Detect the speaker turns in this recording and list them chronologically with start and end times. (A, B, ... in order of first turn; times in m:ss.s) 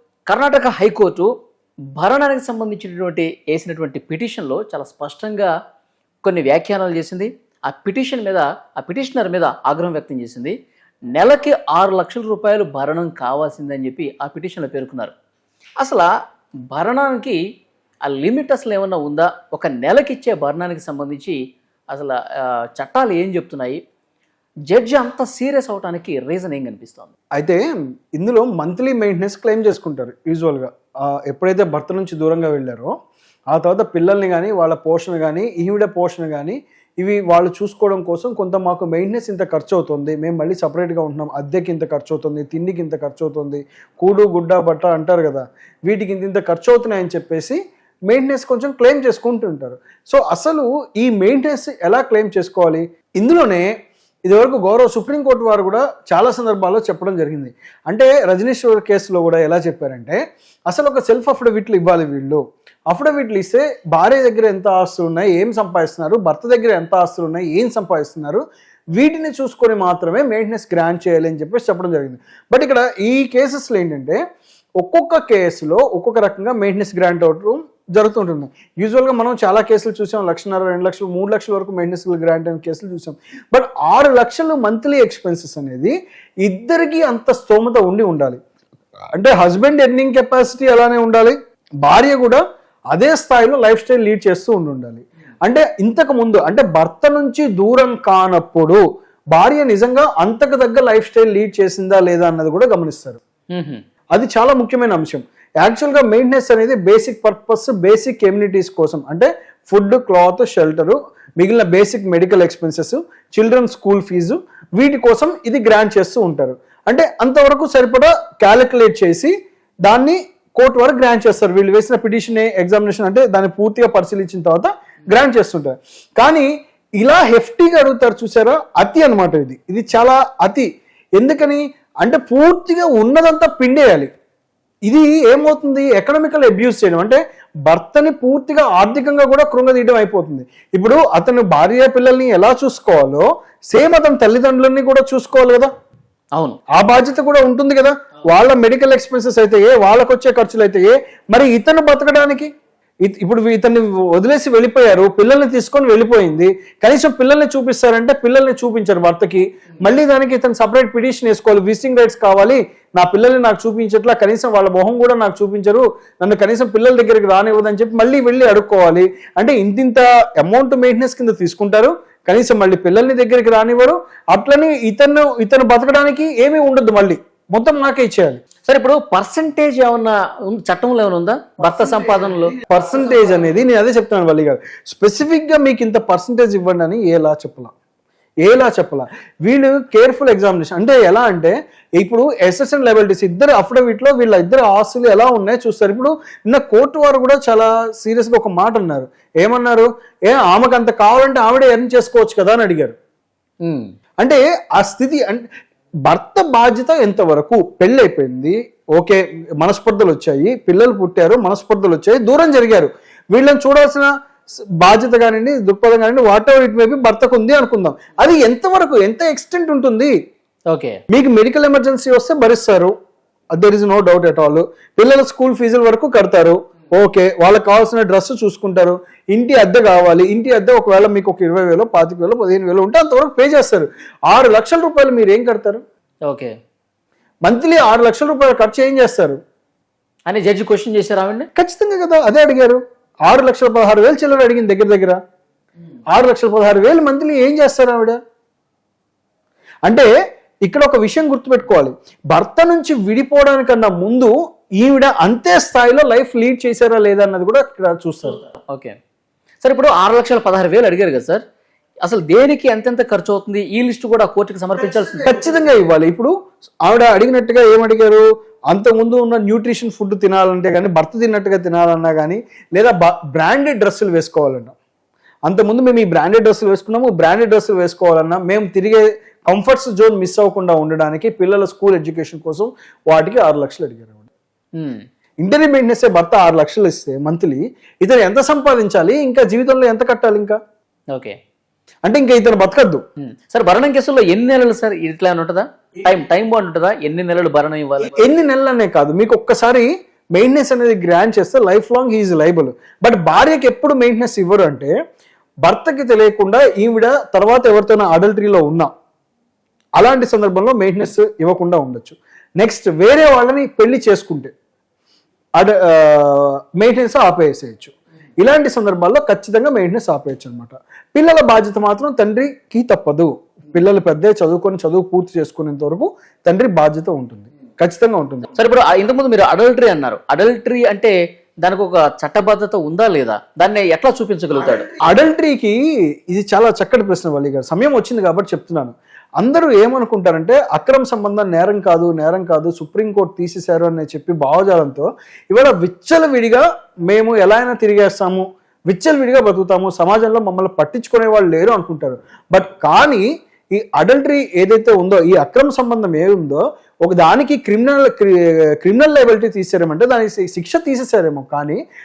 0:00.3-0:01.3 A
0:02.0-0:05.5 A
0:06.2-0:10.5 A
0:11.1-0:15.1 A
0:15.8-0:16.1 A
0:16.7-0:17.4 A
0:18.0-0:21.4 A
0:21.9-0:23.8 A
0:24.7-0:27.1 A
0:27.4-0:32.9 B
0:33.5-0:53.7 B
0:54.3-1:08.4 B
1:08.9-1:14.2 B
1:14.8-1:28.4 B
1:29.1-1:32.4 B
1:32.9-1:38.8 B
1:39.3-1:43.2 B
1:43.5-1:43.8 A
1:44.1-1:59.3 B
1:59.8-2:14.1 B
2:14.8-2:25.7 B
2:26.7-2:32.5 B
2:33.0-2:58.4 B
2:58.6-3:02.6 A
3:02.6-3:07.7 B
3:08.4-3:23.0 B
3:23.6-3:23.9 A
3:24.2-3:25.4 B
3:26.1-3:34.1 B
3:34.8-3:40.1 B
3:40.7-3:41.0 A
3:41.1-3:42.9 B
3:43.5-3:55.8 B
3:56.2-3:56.5 A
3:57.4-3:59.4 B
4:00.3-4:01.5 A
4:01.6-4:05.2 B
4:06.1-4:08.2 B
4:10.6-4:18.4 B
4:18.4-4:18.9 A
4:19.6-4:21.4 A
4:22.0-4:25.4 A
4:25.2-4:26.3 B
4:26.8-4:34.7 B
4:35.4-4:44.3 B
4:44.8-4:45.0 A
4:45.4-4:50.6 B
4:52.0-4:53.0 B
4:53.2-4:58.3 A
4:58.1-5:04.9 B
5:05.6-5:08.9 B
5:10.0-5:14.5 B
5:15.6-5:28.5 B
5:28.5-5:34.9 A
5:35.0-5:35.8 B
5:36.3-6:01.8 B